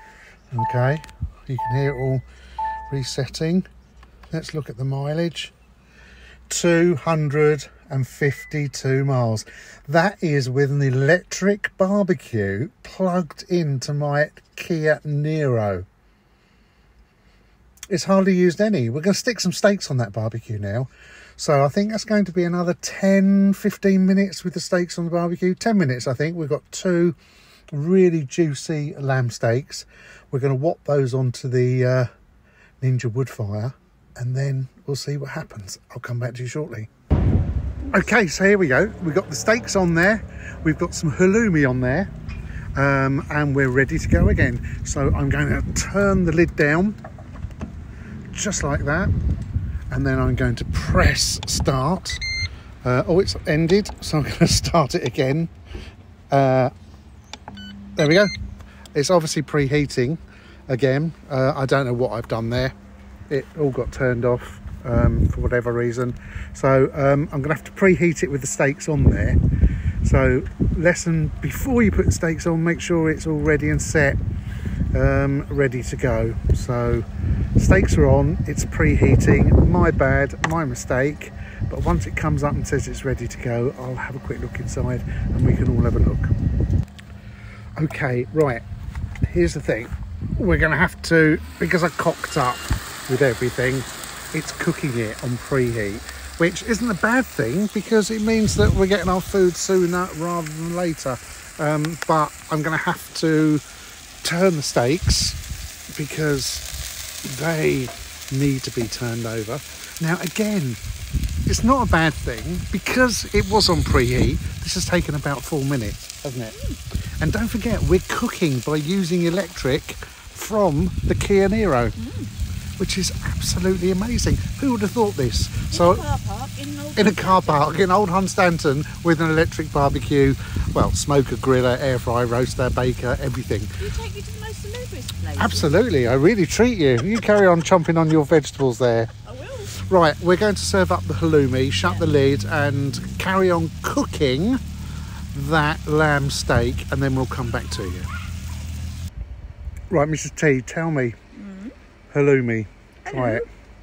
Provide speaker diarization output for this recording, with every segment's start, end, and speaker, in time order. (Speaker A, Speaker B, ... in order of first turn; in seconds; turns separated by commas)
Speaker A: 0.5-2.2, Speaker A: 2.9-3.7, Speaker A: 4.3-5.5, Speaker A: 6.5-15.8, Speaker A: 17.9-27.2, Speaker A: 27.7-32.1, Speaker A: 32.8-36.9, Speaker A: 37.9-42.1, Speaker A: 42.8-47.0, Speaker A: 48.3-49.1, Speaker A: 49.9-52.2, Speaker A: 52.8-55.5, Speaker A: 56.3-56.7, Speaker A: 58.0-58.3, Speaker A: 58.9-62.7, Speaker A: 63.3-69.4, Speaker A: 70.0-74.2, Speaker A: 74.9-77.0, Speaker A: 77.6-86.3, Speaker A: 87.8-88.6, Speaker A: 89.2-103.6, Speaker A: 104.2-105.4, Speaker A: 105.9-106.6, Speaker A: 107.2-110.8, Speaker A: 111.5-116.5, Speaker B: 116.5-116.8, Speaker A: 117.2-122.0, Speaker B: 122.0-122.3, Speaker A: 122.8-126.0, Speaker B: 125.7-127.7, Speaker A: 127.0-133.7, Speaker B: 133.8-135.8, Speaker A: 135.4-139.1, Speaker B: 139.2-139.7, Speaker A: 139.8-144.6, Speaker A: 145.3-148.1, Speaker A: 149.9-151.2, Speaker B: 151.3-151.7, Speaker A: 152.1-153.4, Speaker B: 153.0-153.5